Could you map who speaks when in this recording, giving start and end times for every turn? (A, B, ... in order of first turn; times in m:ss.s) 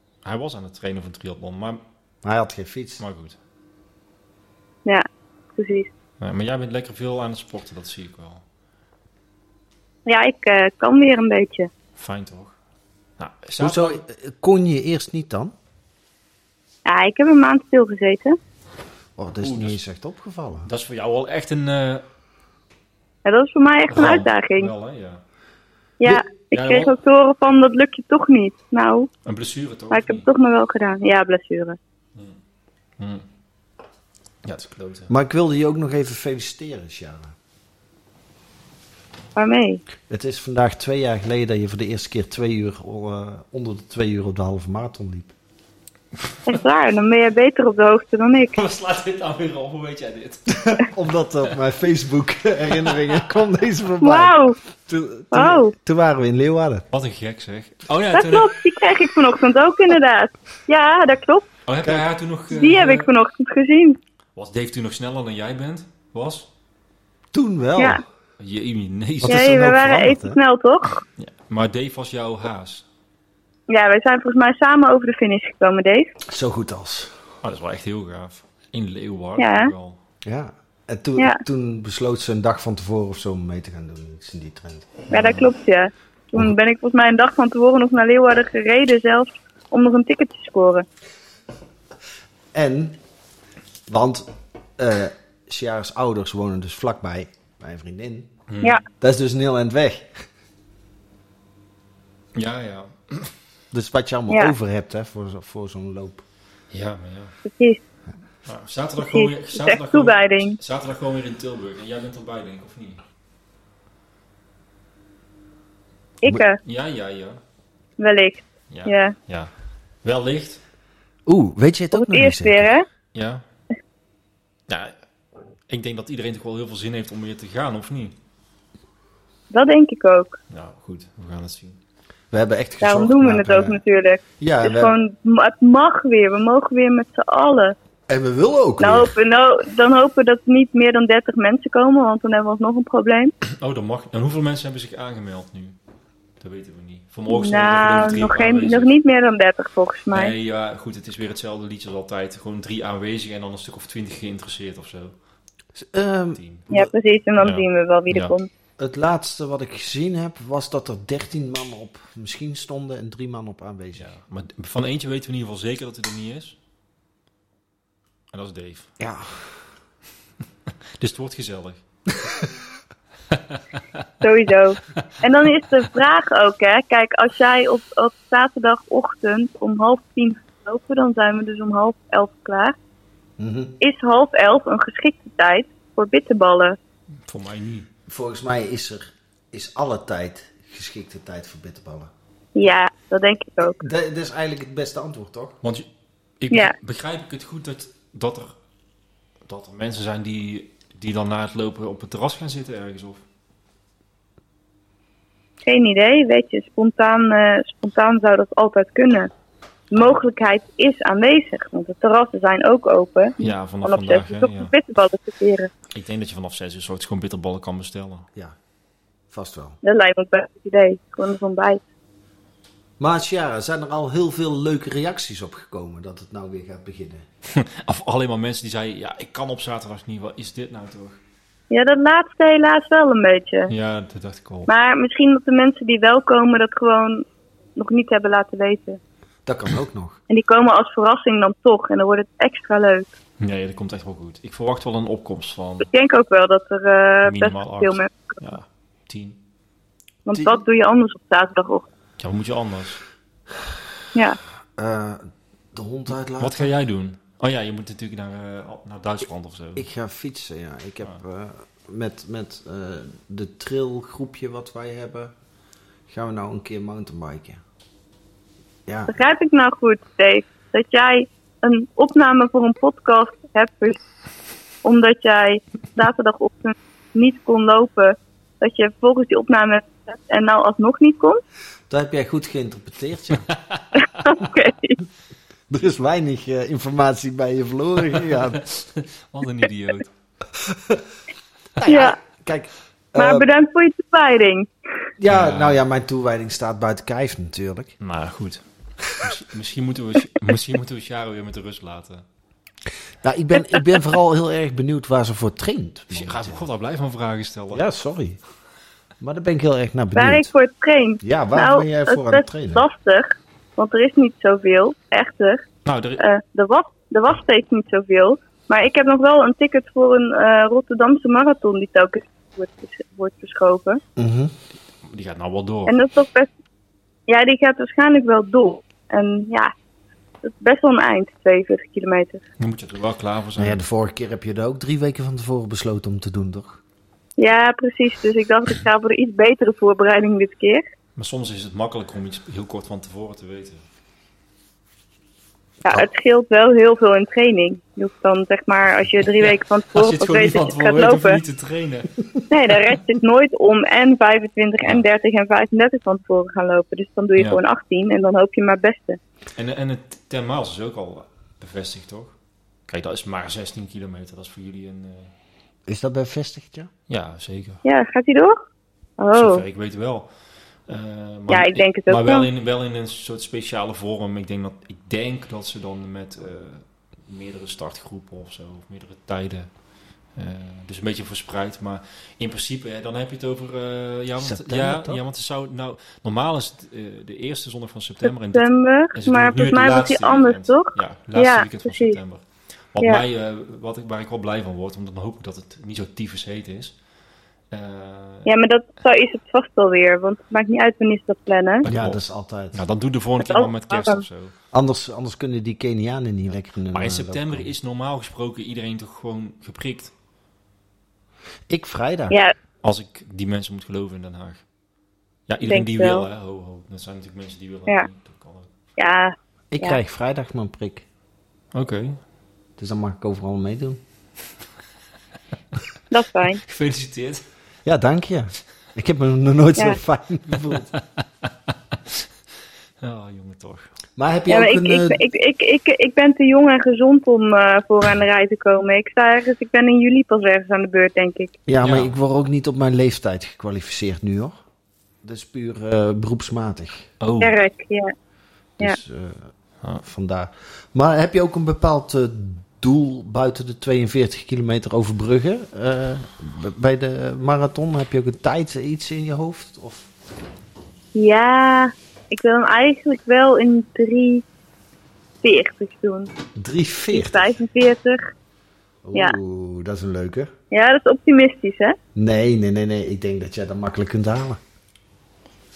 0:00.2-0:01.8 A
0:02.2-0:03.0 B
0:03.0-0:03.4 A
0:04.8-0:05.9 C
0:06.2-0:08.4 A
0:10.1-0:11.7 C
0:12.0-0:12.6 A
0:13.2-0:14.0 A
0:13.6-0:15.5 B
0:16.8-0:18.4 C
0:19.2-0:20.7 B
0:19.4-0:19.8 A
0:20.6-0:22.0 A
0:23.2-0:24.7 C
0:23.9-0:25.2 A
0:26.0-0:29.1 C
0:26.5-0:26.9 A
0:29.2-0:30.3 A
0:29.9-0:31.8 C
0:33.0-0:33.3 A
0:34.4-0:35.1 A
0:35.1-0:37.3 B
0:39.4-0:39.8 C
0:40.1-0:45.3 B
0:46.5-0:48.6 C
0:48.5-0:50.8 A
0:50.6-0:56.9 B
0:52.8-0:53.2 A
0:54.0-0:54.6 C
0:55.3-0:55.7 C
0:56.9-0:58.6 A
0:58.1-1:01.5 C
1:01.7-1:03.1 A
1:02.5-1:04.0 C
1:04.4-1:06.5 A
1:07.3-1:08.0 B
1:08.4-1:09.7 A
1:09.2-1:10.4 B
1:09.3-1:11.0 C
1:11.2-1:12.9 A
1:13.7-1:16.1 C
1:16.3-1:17.2 B
1:17.4-1:20.0 A
1:19.4-1:19.7 C
1:20.2-1:25.0 B
1:25.1-1:25.5 A
1:25.1-1:30.9 C
1:32.5-1:33.0 B
1:33.9-1:38.3 B
1:38.5-1:38.8 A
1:39.0-1:40.2 B
1:42.4-1:43.3 A
1:43.7-1:46.2 B
1:46.7-1:47.4 A
1:47.4-1:47.8 C
1:48.4-1:53.0 A
1:49.0-1:50.6 C
1:56.2-1:56.6 C
1:56.6-1:57.4 A
1:58.0-1:59.2 C
1:58.7-1:59.5 A
2:00.0-2:00.6 A
2:01.3-2:02.7 B
2:01.9-2:02.9 C
2:03.1-2:03.4 A
2:04.7-2:05.0 A
2:05.7-2:08.2 A
2:09.5-2:10.4 C
2:10.5-2:11.8 A
2:12.3-2:13.8 B
2:12.8-2:17.8 C
2:14.4-2:15.0 B
2:18.1-2:19.1 B
2:18.8-2:23.3 C
2:23.4-2:25.8 A
2:26.4-2:28.9 A
2:27.3-2:30.3 C
2:30.1-2:35.2 A
2:35.8-2:36.9 B
2:36.3-2:36.7 A
2:36.7-2:38.5 C
2:37.4-2:38.4 A
2:38.8-2:44.1 B
2:44.0-2:46.6 A
2:48.3-2:48.9 A
2:49.0-2:49.6 B
2:51.0-2:51.8 A
2:53.3-2:53.8 A
2:54.2-3:02.8 C
3:03.4-3:03.8 B
3:03.8-3:06.8 C
3:07.3-3:07.9 A
3:08.1-3:12.1 B
3:12.6-3:13.8 C
3:13.8-3:15.6 B
3:15.6-3:15.9 A
3:16.4-3:18.6 A
3:19.5-3:23.2 A
3:25.6-3:29.3 C
3:29.9-3:35.7 C
3:33.4-3:34.7 A
3:35.9-3:38.3 A
3:39.3-3:39.8 B
3:39.8-3:41.8 C
3:43.0-3:47.2 B
3:47.5-3:51.2 A
3:51.7-3:53.7 C
3:53.7-3:54.7 A
3:54.7-3:59.0 C
3:59.5-4:00.2 B
4:00.3-4:03.1 C
4:03.4-4:05.9 A
4:05.8-4:08.2 C
4:07.2-4:09.4 A
4:10.3-4:11.9 C
4:10.3-4:10.6 B
4:12.2-4:13.0 A
4:14.1-4:14.4 C
4:14.8-4:16.7 B
4:16.4-4:19.9 A
4:19.8-4:25.3 B
4:26.1-4:27.6 B
4:28.9-4:29.2 B
4:29.1-4:34.0 C
4:34.8-4:41.4 C
4:41.9-4:43.5 B
4:43.5-4:43.9 A
4:44.1-4:45.0 C
4:45.7-4:48.6 B
4:48.2-4:50.1 A
4:50.5-4:51.1 B
4:51.8-4:53.5 B
4:51.8-4:52.2 C
4:53.2-4:54.7 C
4:55.2-4:58.0 B
4:55.3-4:55.8 A
4:58.0-5:02.2 A
5:03.2-5:06.6 B
5:06.1-5:07.8 A
5:07.7-5:08.4 B
5:09.2-5:10.5 B
5:10.2-5:15.6 C
5:11.2-5:12.8 B
5:15.8-5:16.2 A
5:16.2-5:24.0 C
5:24.2-5:24.5 B
5:25.0-5:26.0 A
5:25.9-5:26.5 C
5:27.3-5:29.7 C
5:30.4-5:32.4 C
5:32.6-5:33.8 A
5:33.6-5:36.8 B
5:37.4-5:40.8 C
5:41.2-5:43.8 A
5:45.8-5:51.4 C
5:49.4-5:52.2 A
5:52.5-5:59.2 C
5:59.6-6:02.4 A
6:02.9-6:05.3 A
6:05.9-6:06.9 B
6:07.1-6:07.8 A
6:07.8-6:08.6 C
6:09.2-6:09.6 C
6:09.4-6:10.3 A
6:10.9-6:19.7 A
6:11.5-6:12.5 C
6:20.3-6:37.0 A
6:24.4-6:25.2 B
6:28.2-6:32.2 C
6:37.7-6:38.5 A
6:38.5-6:41.9 C
6:41.8-6:44.5 A
6:41.8-6:42.8 B
6:43.4-6:44.2 C
6:44.7-6:47.7 B
6:46.9-6:50.1 A
6:51.7-6:52.4 B
6:52.8-6:54.6 A
6:55.5-6:58.7 A
6:55.6-6:56.3 C
6:59.0-7:00.0 C
6:59.7-7:01.0 B
7:01.7-7:02.2 A
7:02.8-7:04.0 B
7:06.1-7:06.6 C
7:06.6-7:07.4 A
7:07.8-7:10.9 B
7:10.5-7:11.0 A
7:13.0-7:13.9 A
7:14.2-7:15.2 B
7:14.5-7:21.6 C
7:21.7-7:24.6 B
7:21.8-7:22.1 A
7:25.2-7:27.1 B
7:27.2-7:27.6 A
7:27.4-7:28.1 C
7:28.8-7:29.5 B
7:30.0-7:40.1 B
7:41.2-7:44.4 C
7:45.4-7:46.3 C
7:46.6-7:47.6 B
7:47.1-7:48.3 C
7:49.0-7:50.5 B
7:50.7-7:52.0 C
7:52.2-7:54.6 B